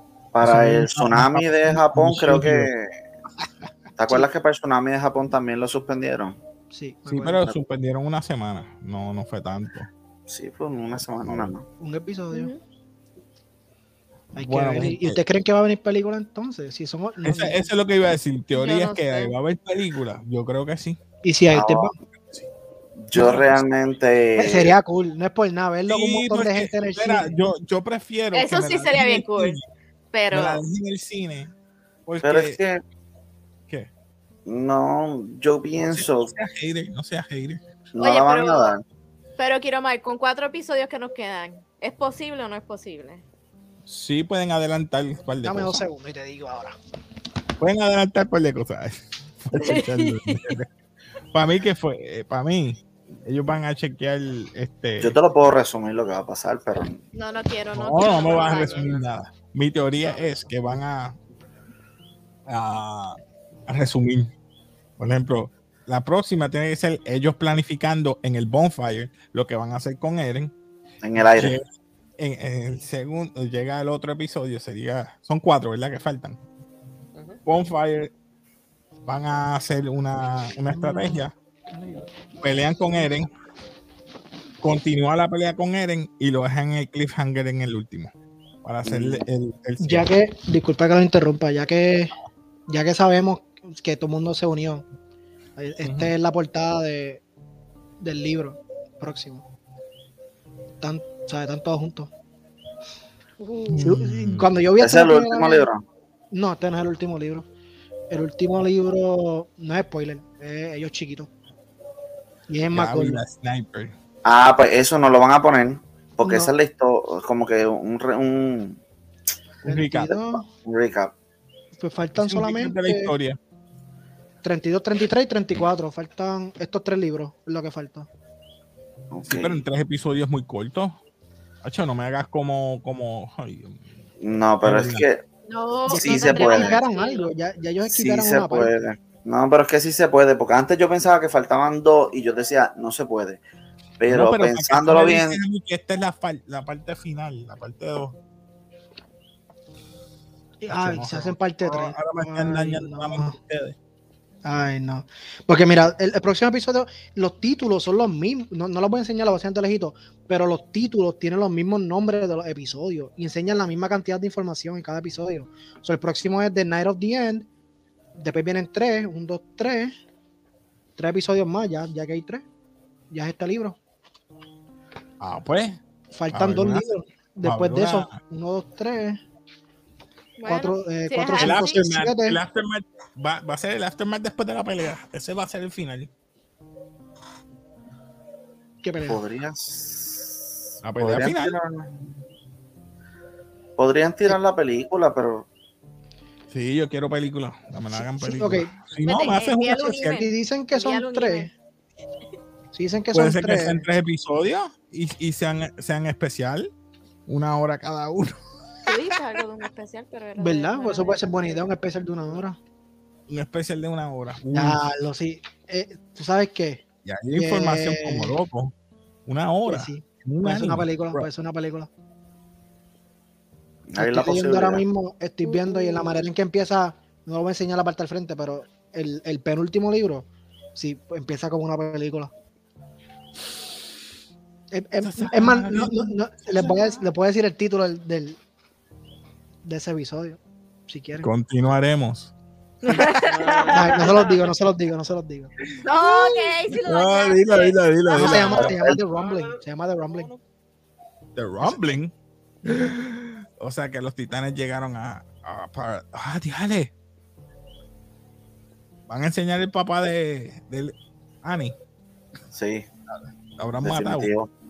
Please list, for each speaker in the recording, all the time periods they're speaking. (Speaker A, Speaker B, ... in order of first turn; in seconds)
Speaker A: 0.3-2.9, 4.0-6.4, 10.3-11.7, 21.5-21.9, 23.0-24.7, 32.2-32.8, 34.5-36.3, 37.9-38.8, 55.0-57.0, 71.0-71.5, 88.8-89.2, 104.8-105.8, 114.2-118.8, 120.5-121.1, 129.1-129.6, 134.2-135.2, 135.9-136.8, 137.9-143.4, 144.0-145.4, 189.1-190.3, 191.0-192.1, 193.8-195.5, 223.9-224.8, 248.6-249.0, 262.5-262.9, 263.8-264.5
Speaker B: 0.4-2.7, 7.1-9.9, 10.9-11.5, 14.3-15.2, 17.2-21.0, 23.1-23.6, 25.9-29.6, 30.3-31.5, 32.1-32.6, 35.7-37.6, 43.9-45.8, 47.6-50.7, 51.3-55.1, 57.7-61.2, 62.5-64.3, 65.0-70.5, 71.3-71.6, 72.2-76.4, 77.5-78.1, 79.0-81.3, 82.4-83.3, 84.6-88.1, 88.6-90.1, 95.8-96.1, 103.7-104.5, 112.7-113.9, 119.6-120.2, 122.2-123.4, 129.3-131.0, 131.6-133.8, 134.6-135.1, 144.1-148.2, 150.7-153.8, 175.2-175.8, 176.3-176.9, 177.4-178.2, 181.4-186.1, 190.8-191.5, 196.5-200.2, 203.1-206.7, 207.3-208.4, 209.1-209.4, 213.3-214.8, 217.0-218.7, 219.2-221.2, 235.0-237.1, 241.2-242.3, 242.8-243.3, 245.9-248.7, 251.3-252.1, 252.6-256.9, 259.1-261.8, 263.6-264.3
Speaker C: 6.7-7.5, 11.8-12.5, 14.3-17.6, 21.2-21.9, 24.4-27.3, 45.4-46.8, 80.7-82.1, 89.8-92.1, 92.7-94.8, 95.6-97.2, 98.0-99.5, 100.8-102.1, 103.8-105.7, 106.3-107.5, 108.1-111.3, 112.5-113.2, 116.2-116.5, 119.6-120.5, 121.8-123.1, 124.4-128.1, 135.9-138.7, 150.6-153.4, 154.4-167.5, 168.2-169.9, 171.0-172.4, 173.1-173.8, 176.1-179.2, 180.4-182.4, 188.8-189.2, 197.9-198.7, 200.1-201.5, 202.7-203.8, 210.4-212.6, 214.5-216.8, 217.3-218.3, 219.7-221.9, 224.0-232.3, 234.7-238.4, 239.6-241.3, 243.7-245.5, 248.1-250.3
Speaker D: 12.3-12.6, 18.5-19.3, 28.3-29.6, 30.1-30.6, 38.0-38.7, 39.4-43.2, 49.5-50.5, 57.1-59.0, 103.4-103.8, 135.5-137.3, 180.4-181.8, 199.0-201.5, 208.8-211.6, 225.4-226.2, 242.8-244.0, 245.8-247.8
Speaker E: 58.0-59.0, 60.0-60.4, 77.1-77.4, 243.2-244.5, 248.5-250.4